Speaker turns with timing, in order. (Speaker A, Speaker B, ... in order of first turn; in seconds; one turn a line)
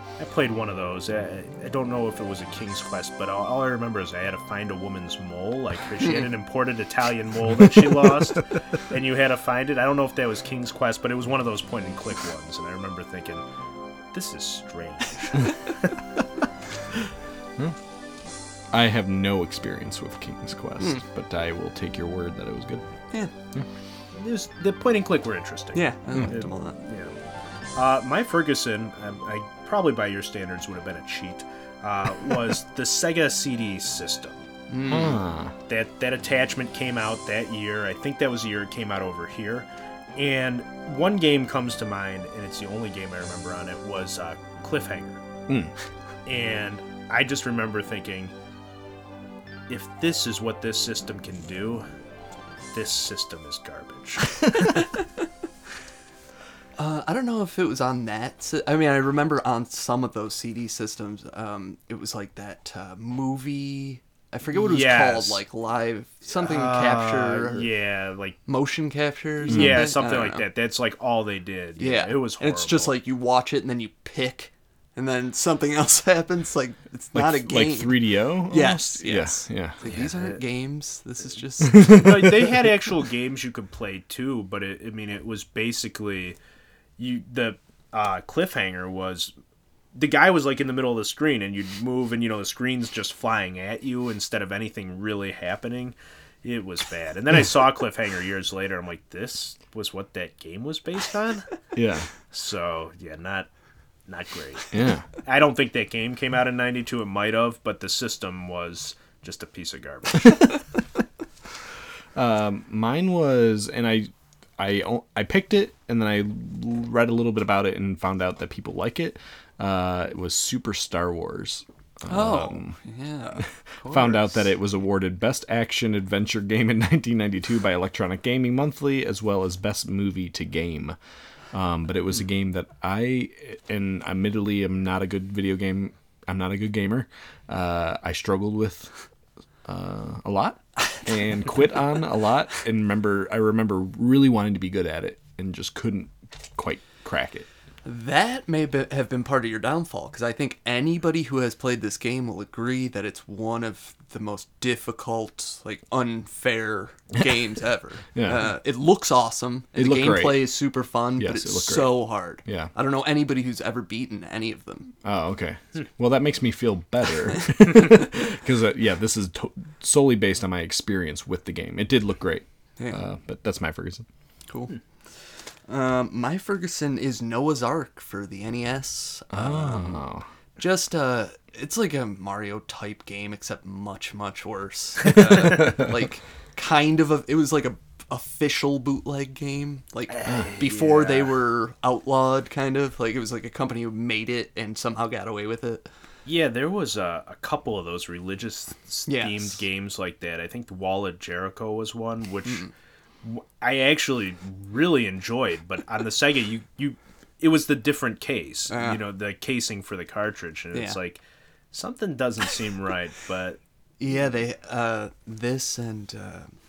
Speaker A: 0.2-13.4
Speaker A: 14.1-15.5
Speaker B: 18.7-22.8
Speaker A: 24.1-27.1
Speaker C: 25.7-26.8
Speaker A: 27.8-34.5
Speaker C: 34.7-35.2
Speaker B: 34.9-35.5
Speaker A: 35.7-45.2
Speaker B: 45.5-45.7
Speaker A: 46.3-48.3
Speaker A: 49.7-51.9
Speaker A: 52.7-54.4
Speaker C: 56.8-67.7
Speaker A: 64.5-65.4
Speaker A: 66.3-68.4
Speaker C: 68.5-70.5
Speaker A: 69.5-73.0
Speaker B: 69.5-69.9
Speaker C: 71.8-82.0
Speaker B: 77.1-79.8
Speaker A: 79.8-80.4
Speaker B: 81.6-82.5
Speaker A: 81.9-86.4
Speaker A: 87.0-89.3
Speaker A: 90.0-101.5
Speaker B: 101.8-102.1
Speaker A: 102.3-103.5
Speaker A: 104.1-104.7
Speaker B: 104.7-105.1
Speaker A: 105.2-110.3
Speaker B: 112.2-122.8
Speaker C: 122.1-124.5
Speaker B: 123.4-131.0
Speaker B: 131.5-138.9
Speaker B: 139.7-147.5
Speaker C: 147.8-164.9
Speaker B: 158.2-158.6
Speaker B: 159.8-160.6
Speaker B: 161.2-162.7
Speaker B: 165.0-174.1
Speaker C: 167.8-168.0
Speaker C: 174.5-174.8
Speaker C: 175.7-180.0
Speaker B: 179.3-180.3
Speaker C: 180.6-195.9
Speaker B: 185.4-185.8
Speaker A: 190.1-191.3
Speaker A: 196.2-202.6
Speaker C: 199.1-199.6
Speaker C: 202.5-202.7
Speaker A: 203.2-211.2
Speaker C: 208.7-209.0
Speaker C: 210.7-211.0
Speaker A: 211.7-213.6
Speaker C: 214.0-216.5